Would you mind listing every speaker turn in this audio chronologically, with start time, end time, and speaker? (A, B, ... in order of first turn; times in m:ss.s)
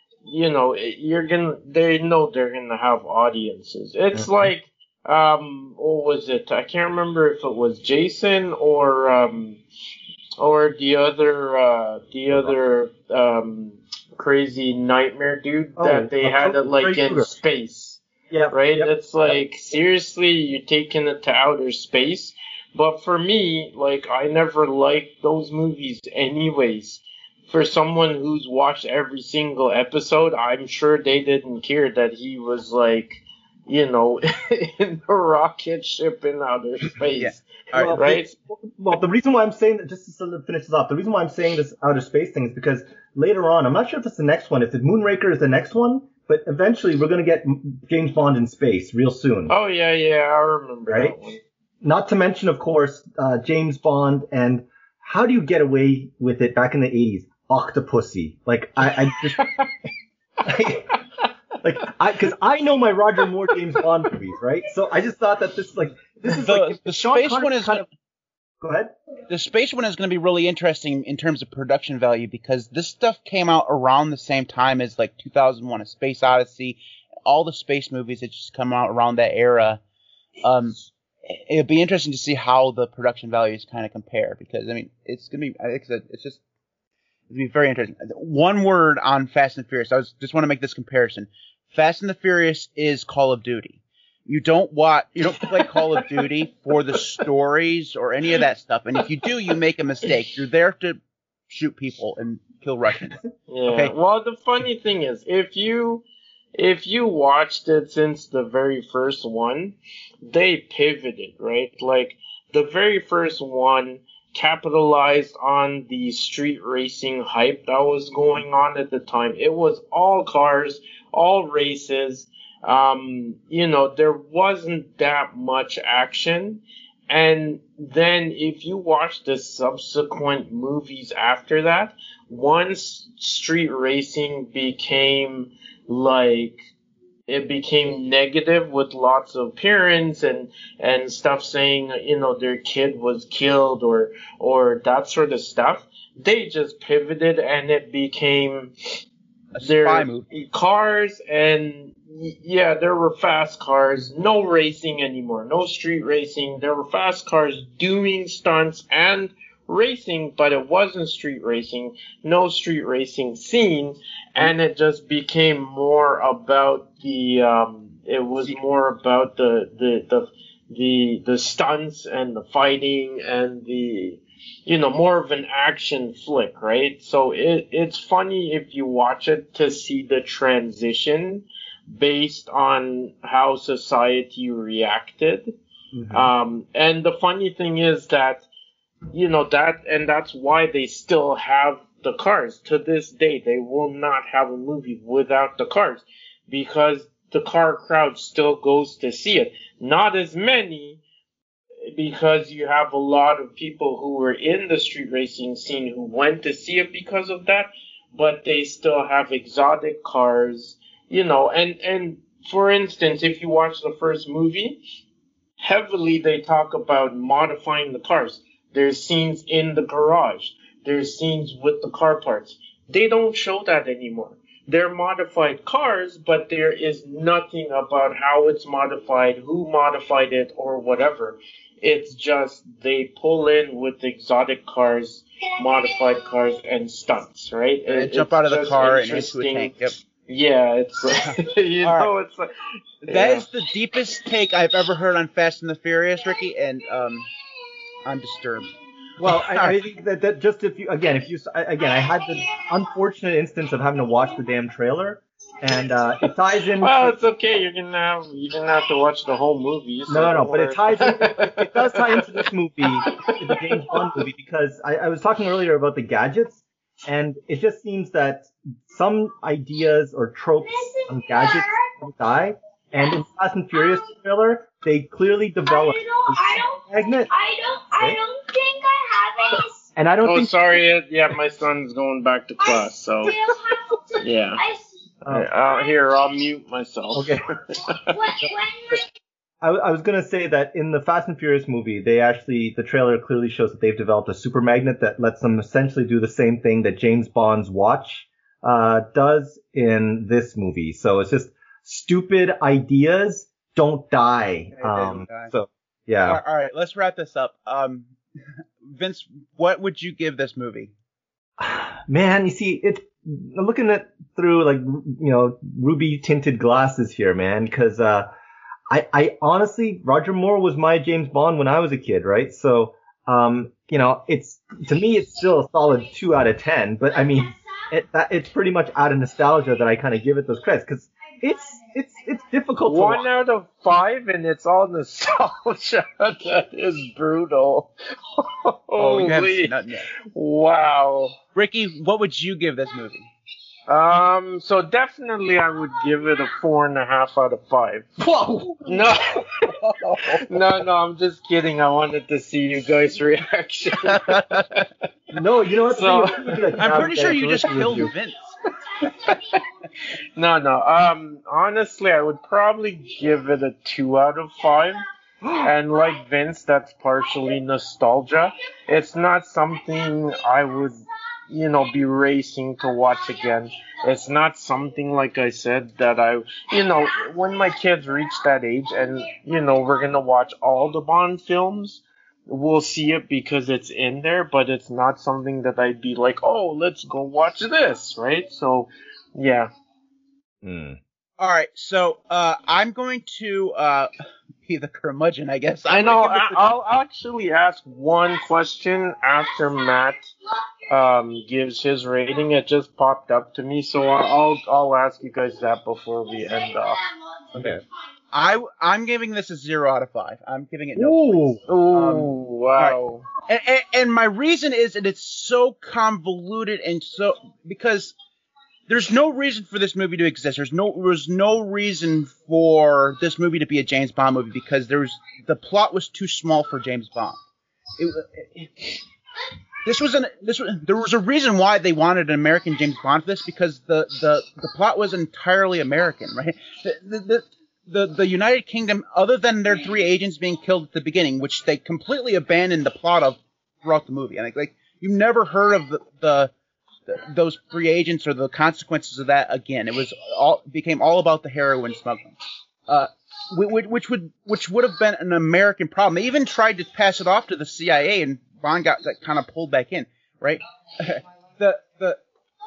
0:00.2-0:09.6 A
0:04.1-0:04.4 B
0:10.4-0:38.4 A
0:15.8-0:17.3 B
0:18.3-0:18.9 B
0:37.2-0:38.0 C
0:37.8-0:49.5 B
0:49.5-0:51.4 A
0:50.9-0:51.2 B
0:51.8-0:59.5 B
0:59.1-0:59.7 A
1:00.4-1:00.9 B
1:01.6-1:07.9 B
1:06.3-1:07.9 C
1:08.6-1:08.9 B
1:09.3-1:19.8 C
1:20.4-1:26.4 C
1:27.3-1:43.9 C
1:35.6-1:36.1 A
1:43.5-2:16.6 A
2:17.3-2:28.7 A
2:29.5-2:30.3 C
2:29.6-3:05.6 A
3:05.9-3:06.3 B
3:06.1-3:08.5 A
3:09.1-3:21.0 A
3:21.9-3:34.8 A
3:35.6-4:02.5 A
3:57.9-4:00.0 C
4:01.2-4:02.1 C
4:03.0-4:03.5 A
4:03.1-4:07.3 C
4:08.0-4:08.7 C
4:09.2-4:17.2 B
4:09.3-4:09.8 C
4:16.8-4:22.5 A
4:20.1-4:37.3 B
4:23.1-4:24.2 A
4:30.6-4:31.9 D
4:33.7-4:34.0 D
4:35.6-4:39.9 D
4:40.0-4:40.6 B
4:40.2-4:43.4 A
4:42.6-4:44.9 D
4:44.2-4:44.6 A
4:45.2-4:45.5 B
4:45.3-4:48.2 A
4:47.1-4:47.4 B
4:48.1-4:49.1 D
4:49.6-5:06.4 B
5:04.8-5:05.5 C
5:06.2-5:08.2 C
5:08.8-5:10.9 C
5:11.6-5:18.3 B
5:18.9-5:33.2 B
5:32.9-5:39.7 A
5:39.0-5:40.1 C
5:40.3-5:41.4 A
5:41.5-5:43.3 C
5:43.9-5:48.1 A
5:48.2-5:49.1 B
5:48.8-5:49.5 A
5:49.6-5:50.6 C
5:50.4-5:54.9 A
5:54.1-5:54.6 C
5:55.3-5:58.1 B
5:55.9-5:57.0 A
5:56.8-5:58.5 C
5:59.2-5:59.6 A
6:00.4-6:05.0 A
6:05.6-6:29.7 A
6:30.6-6:31.0 B
6:31.4-6:34.1 C
6:34.6-6:36.7 C
6:35.9-6:40.2 A
6:40.9-6:47.0 A
6:47.5-6:47.8 B
6:48.3-6:58.2 C
6:51.0-6:51.6 B
6:51.7-6:53.3 A
6:58.9-7:07.4 C
7:08.0-7:08.9 C
7:09.8-7:26.5 C
7:27.1-7:32.4 C
7:32.9-7:42.2 C